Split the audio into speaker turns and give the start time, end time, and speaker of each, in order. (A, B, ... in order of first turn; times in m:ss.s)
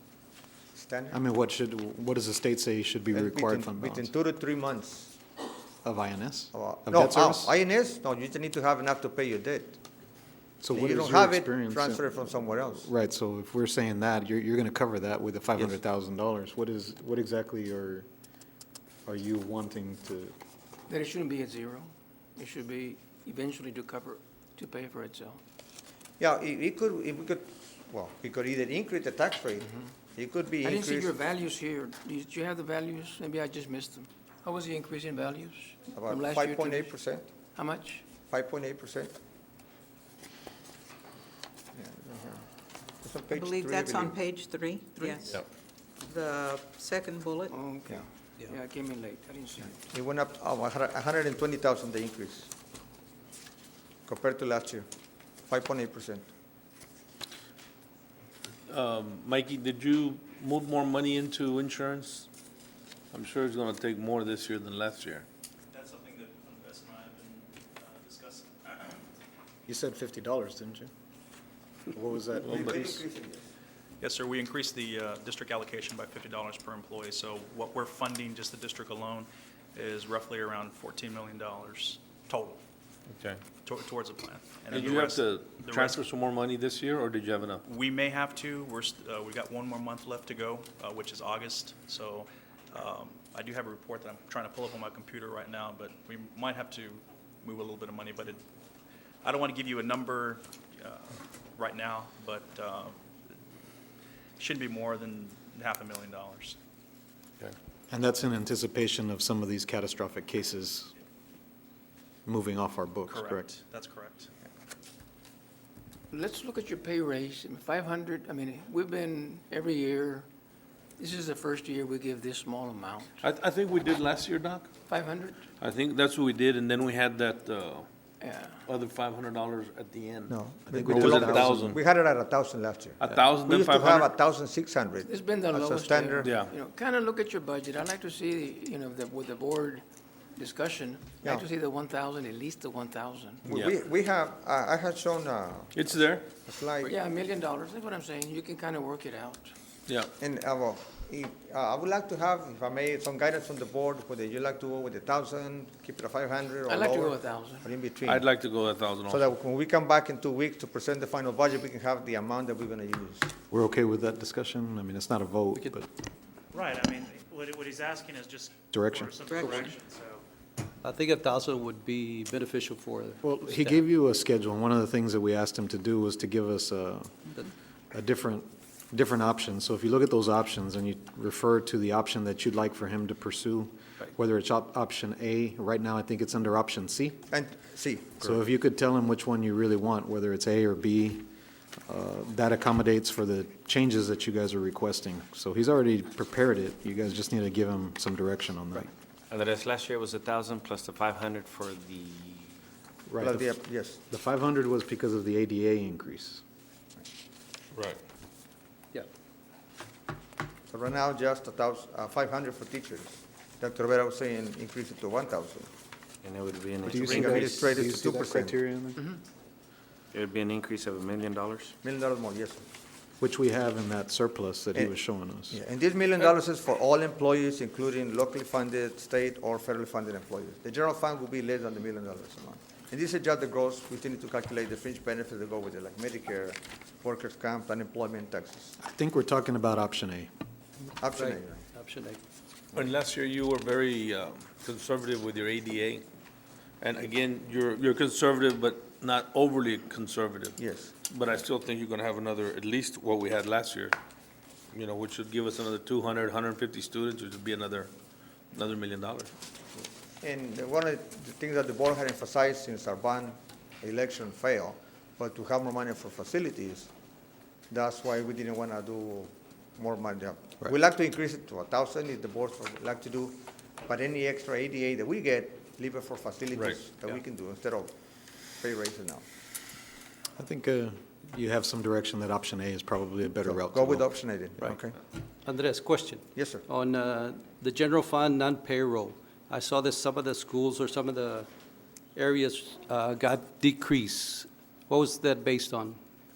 0:00.7-0:01.2 A
0:01.1-0:04.1 B
0:03.1-0:05.2 A
0:05.8-0:07.5 B
0:06.5-0:09.8 A
0:10.6-0:18.1 B
0:10.7-0:12.9 A
0:19.1-0:20.4 B
0:20.9-0:25.4 C
0:26.2-0:31.1 A
0:30.6-0:37.0 C
0:35.9-0:37.3 A
0:37.6-0:38.0 C
0:38.3-0:39.1 A
0:41.7-0:42.5 A
0:43.0-0:44.2 A
0:43.3-0:45.3 D
0:44.9-0:45.3 C
0:46.0-0:47.5 D
0:47.5-0:49.8 C
0:49.9-0:52.5 A
0:54.1-0:54.9 A
0:55.5-0:56.3 A
0:58.7-1:02.3 E
1:03.1-1:05.3 E
1:05.7-1:09.0 F
1:09.7-1:10.9 B
1:11.9-1:12.8 B
1:12.4-1:12.9 E
1:12.5-1:13.5 A
1:14.0-1:22.6 F
1:23.6-1:26.0 F
1:24.7-1:27.6 E
1:27.7-1:38.4 F
1:39.2-1:43.0 F
1:44.4-1:46.6 F
1:47.9-1:50.9 B
1:52.3-1:53.5 B
1:53.1-1:54.3 F
1:56.1-2:00.3 C
2:01.0-2:03.3 C
2:03.2-2:04.7 E
2:04.9-2:05.5 C
2:05.6-2:07.9 E
2:08.2-2:08.6 C
2:08.7-2:11.8 E
2:10.3-2:16.3 A
2:10.7-2:11.7 B
2:13.0-2:14.1 E
2:15.0-2:19.8 C
2:16.2-2:16.5 E
2:20.4-2:23.6 C
2:23.5-2:25.8 A
2:25.7-2:26.3 E
2:26.3-2:27.0 A
2:26.8-2:29.5 C
2:30.2-2:38.2 A
2:36.7-2:37.7 C
2:38.0-2:39.2 E
2:39.1-2:43.3 A
2:43.5-2:45.9 B
2:46.5-2:50.2 G
2:48.7-2:49.7 B
2:49.3-2:49.7 D
2:50.9-2:53.8 H
2:53.2-2:57.3 B
2:57.9-3:07.2 B
3:07.3-3:08.4 A
3:08.2-3:11.3 B
3:11.9-3:18.9 B
3:19.3-3:22.5 I
3:23.1-3:26.4 B
3:23.2-3:24.0 A
3:27.7-3:28.0 E
3:30.7-3:35.7 A
3:36.2-3:37.6 I
3:36.9-3:39.1 B
3:36.9-3:38.6 A
3:40.1-3:41.8 I
3:41.8-3:42.6 A
3:43.2-3:45.6 B
3:45.5-3:58.8 A
3:58.8-4:00.3 B
4:01.0-4:01.6 A
4:02.8-4:06.0 E
4:06.8-4:14.0 E
4:10.6-4:10.9 A
4:14.7-4:17.9 E
4:18.5-4:19.3 E
4:20.2-4:26.9 A
4:27.7-4:37.9 A
4:38.6-4:39.2 A
4:40.4-4:44.6 B
4:43.4-4:45.0 A
4:45.5-4:46.1 H
4:46.4-4:46.6 A
4:46.7-4:51.4 H
4:52.2-4:55.9 H